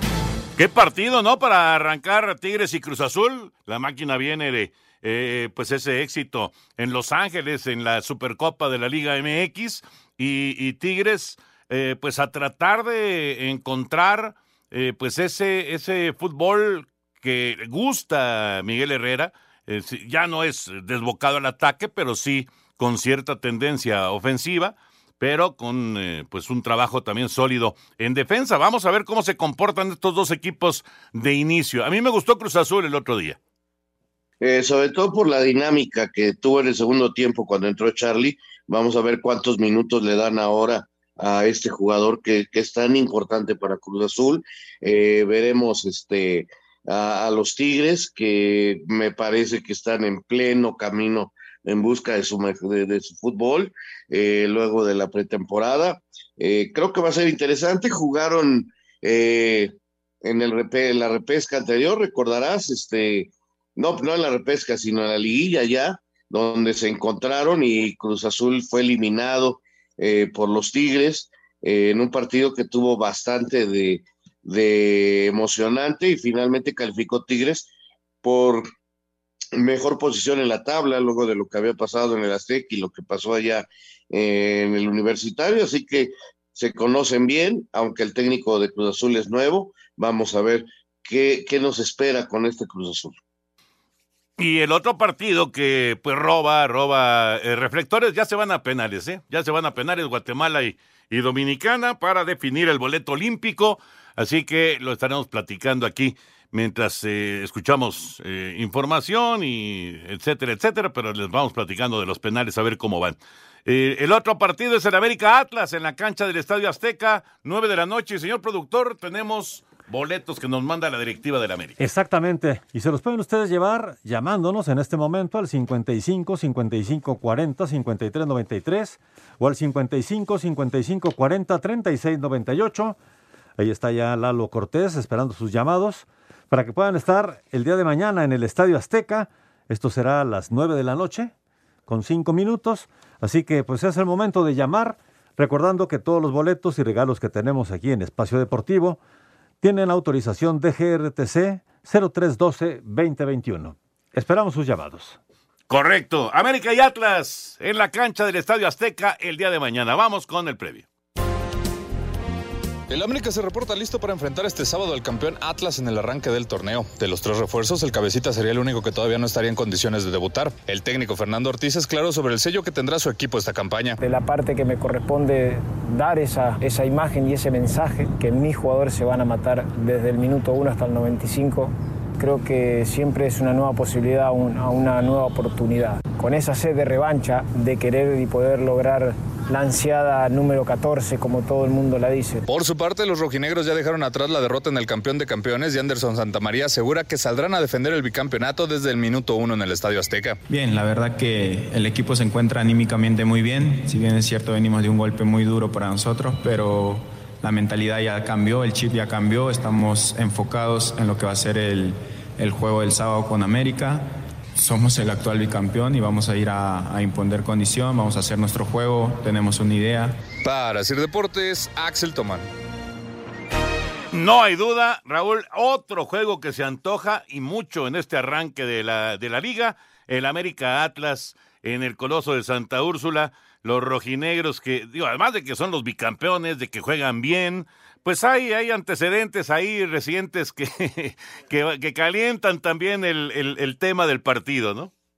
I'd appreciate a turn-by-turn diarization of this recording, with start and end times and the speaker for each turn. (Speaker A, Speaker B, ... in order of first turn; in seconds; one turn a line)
Speaker A: 0.6-33.4
Speaker B: 34.4-77.7
Speaker B: 78.2-78.7
Speaker B: 79.5-93.1
Speaker A: 94.4-121.8
Speaker C: 121.8-133.0
Speaker C: 133.6-141.3
Speaker C: 141.9-149.0
Speaker C: 149.6-155.2
Speaker A: 155.7-160.8
Speaker D: 162.9-174.0
Speaker E: 174.0-192.4
Speaker D: 192.5-200.4
Speaker F: 200.5-220.2
Speaker D: 220.4-222.5
Speaker A: 224.1-244.9